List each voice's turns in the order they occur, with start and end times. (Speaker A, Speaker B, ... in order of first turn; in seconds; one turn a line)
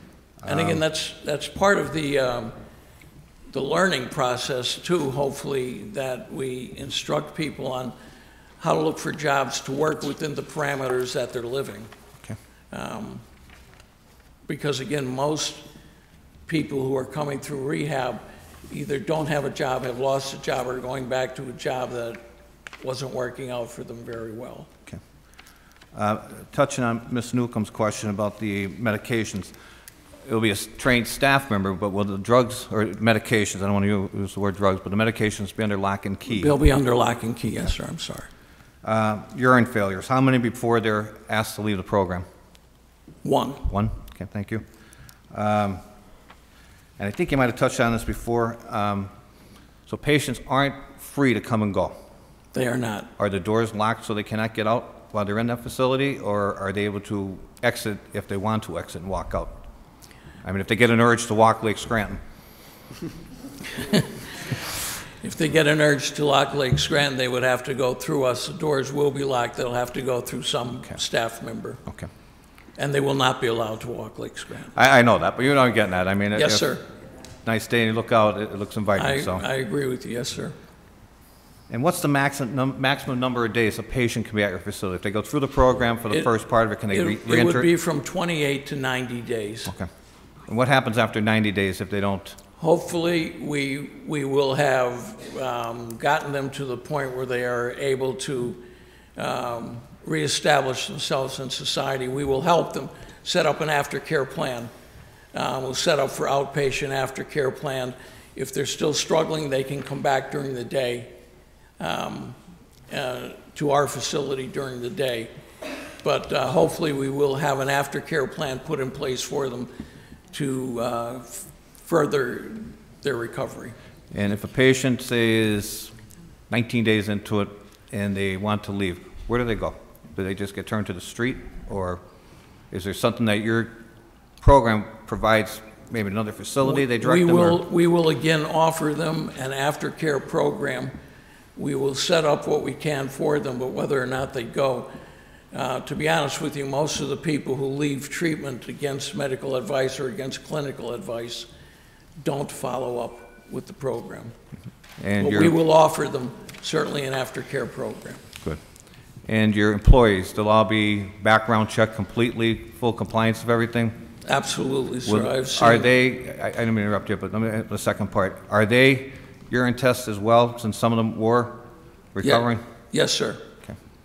Speaker A: 0.4-0.8
Speaker B: 0.5-2.6
Speaker B: 3.5-8.0
Speaker B: 8.6-11.9
Speaker B: 12.7-13.2
Speaker B: 14.5-15.7
Speaker B: 16.5-22.2
Speaker B: 22.8-24.7
Speaker A: 25.9-29.5
Speaker A: 30.3-36.5
Speaker B: 36.3-38.3
Speaker A: 38.8-42.2
Speaker B: 43.2-43.7
Speaker A: 43.7-44.6
Speaker A: 45.3-45.8
Speaker A: 47.0-49.1
Speaker A: 49.9-52.0
Speaker B: 52.5-53.1
Speaker A: 53.2-59.6
Speaker A: 60.4-62.2
Speaker B: 65.2-71.8
Speaker B: 72.8-74.7
Speaker A: 74.8-76.8
Speaker B: 76.3-76.8
Speaker A: 77.4-79.4
Speaker B: 79.0-80.5
Speaker A: 81.7-87.7
Speaker B: 86.9-89.7
Speaker A: 90.5-92.4
Speaker B: 92.6-98.6
Speaker B: 99.2-104.7
Speaker B: 105.3-111.1
Speaker B: 111.8-112.4
Speaker B: 112.9-115.3
Speaker B: 116.0-119.8
Speaker B: 120.3-123.8
Speaker A: 124.1-125.9
Speaker A: 126.5-132.0
Speaker A: 132.7-133.8
Speaker A: 134.4-137.6
Speaker B: 136.6-140.9
Speaker B: 141.6-144.9
Speaker B: 145.5-151.5
Speaker B: 152.2-154.3
Speaker A: 155.0-155.6
Speaker B: 155.2-158.2
Speaker A: 159.2-164.0
Speaker B: 164.2-165.9
Speaker A: 165.1-172.6
Speaker B: 172.2-173.4